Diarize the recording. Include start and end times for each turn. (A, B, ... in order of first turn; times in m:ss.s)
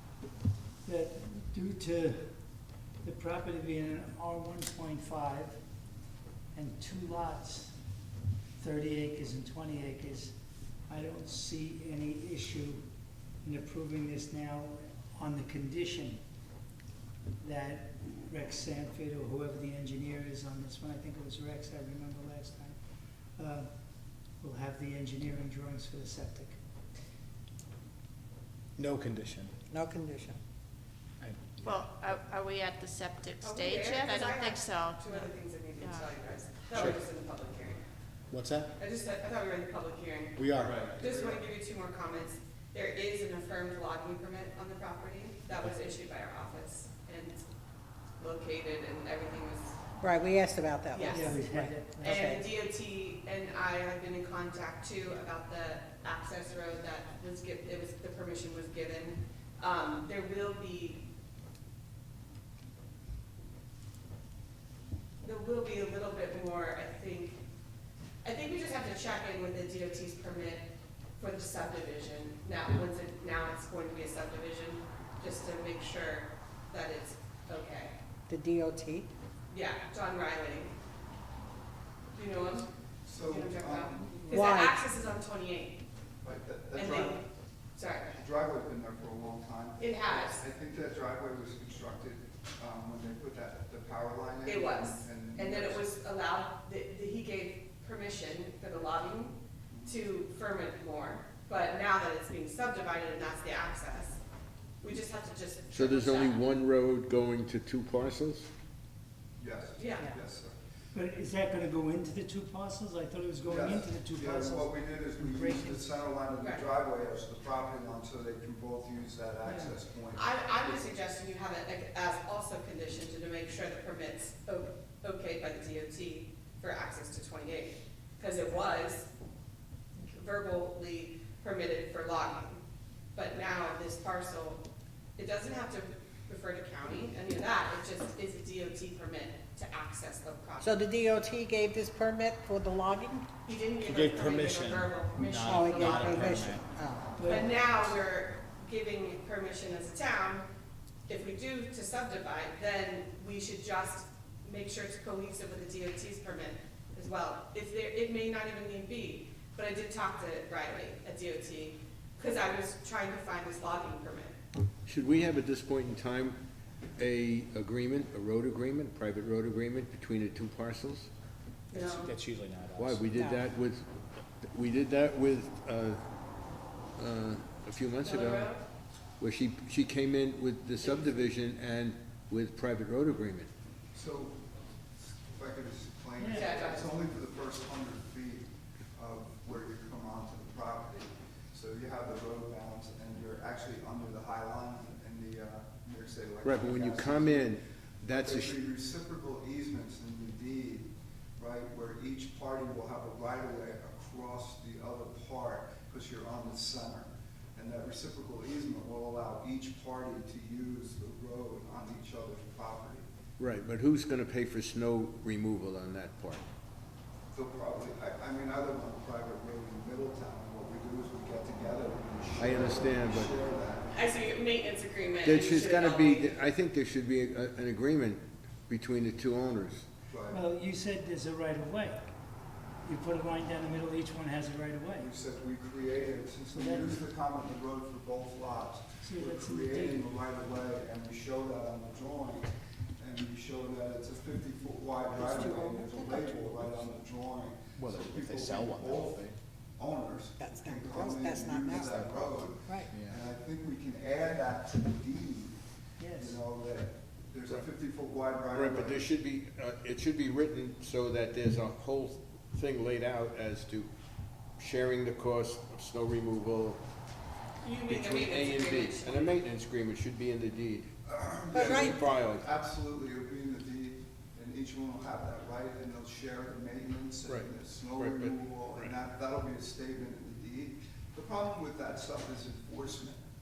0:00.8-0:02.3 A
0:03.0-0:05.6 A
0:06.5-0:07.7 A
0:08.6-0:10.4 A
0:10.9-0:12.8 A
0:13.4-0:16.2 A
0:17.4-0:22.8 A
0:23.4-0:23.7 A
0:24.4-0:26.6 A
0:28.8-0:29.5 B
0:29.7-0:30.4 C
0:31.2-0:31.9 B
0:31.7-0:35.2 D
0:33.4-0:37.8 E
0:38.3-0:38.7 B
0:38.8-0:47.4 E
0:40.4-0:41.2 B
0:40.6-0:41.1 F
0:48.2-0:49.8 E
0:50.0-0:52.4 C
0:50.9-1:01.0 E
0:51.1-0:52.2 A
1:05.2-1:07.4 E
1:08.2-1:10.7 E
1:11.2-1:18.0 E
1:18.3-1:19.1 C
1:19.5-1:20.7 E
1:22.2-1:22.7 E
1:23.0-1:24.5 G
1:23.3-1:25.8 E
1:24.3-1:24.8 C
1:26.2-1:27.2 G
1:26.7-1:27.3 E
1:27.8-1:28.2 E
1:28.2-1:35.9 G
1:29.8-1:30.4 E
1:34.4-1:44.2 E
1:39.7-1:40.0 G
1:44.8-1:46.4 E
1:45.7-1:48.5 F
1:49.4-1:50.6 G
1:49.8-1:50.1 E
1:50.9-1:55.9 A
1:53.4-2:00.3 G
1:56.4-1:56.6 E
1:59.4-1:59.7 A
2:00.1-2:09.1 E
2:10.0-2:12.6 E
2:13.2-2:14.6 E
2:15.2-2:20.8 E
2:20.6-2:23.2 C
2:23.4-2:26.5 E
2:23.8-2:26.7 B
2:25.4-2:27.1 C
2:27.2-2:27.8 A
2:27.2-2:30.5 E
2:31.1-2:44.3 E
2:44.8-2:46.4 F
2:47.0-2:51.1 F
2:51.7-2:52.1 E
2:51.7-2:53.1 B
2:52.8-2:53.8 F
2:53.1-2:53.5 C
2:54.5-2:56.0 F
2:57.0-2:58.5 F
2:58.0-2:58.6 E
2:59.2-3:03.5 F
3:00.8-3:01.2 E
3:03.9-3:04.4 G
3:05.0-3:33.0 G
3:06.2-3:06.6 A
3:06.3-3:07.0 E
3:16.4-3:18.6 F
3:33.4-3:36.4 F
3:37.3-3:43.9 G
3:42.4-3:43.3 F
3:43.9-3:46.4 E
3:45.2-3:49.9 F
3:50.1-3:50.4 G
3:50.3-3:52.0 A
3:52.8-3:55.1 A
3:54.9-4:15.6 G
3:56.5-3:57.0 A
3:59.0-4:00.1 A
4:05.1-4:06.7 C
4:07.8-4:09.4 B
4:10.4-4:12.9 C
4:11.9-4:12.3 B
4:12.9-4:13.2 B
4:16.0-4:16.4 A
4:16.1-4:19.0 G
4:18.5-4:23.9 F
4:24.6-4:26.8 F
4:27.6-4:29.4 E
4:27.8-4:30.9 F
4:31.0-4:43.2 G
4:31.5-4:32.1 C
4:31.5-4:32.4 F
4:37.2-4:38.9 F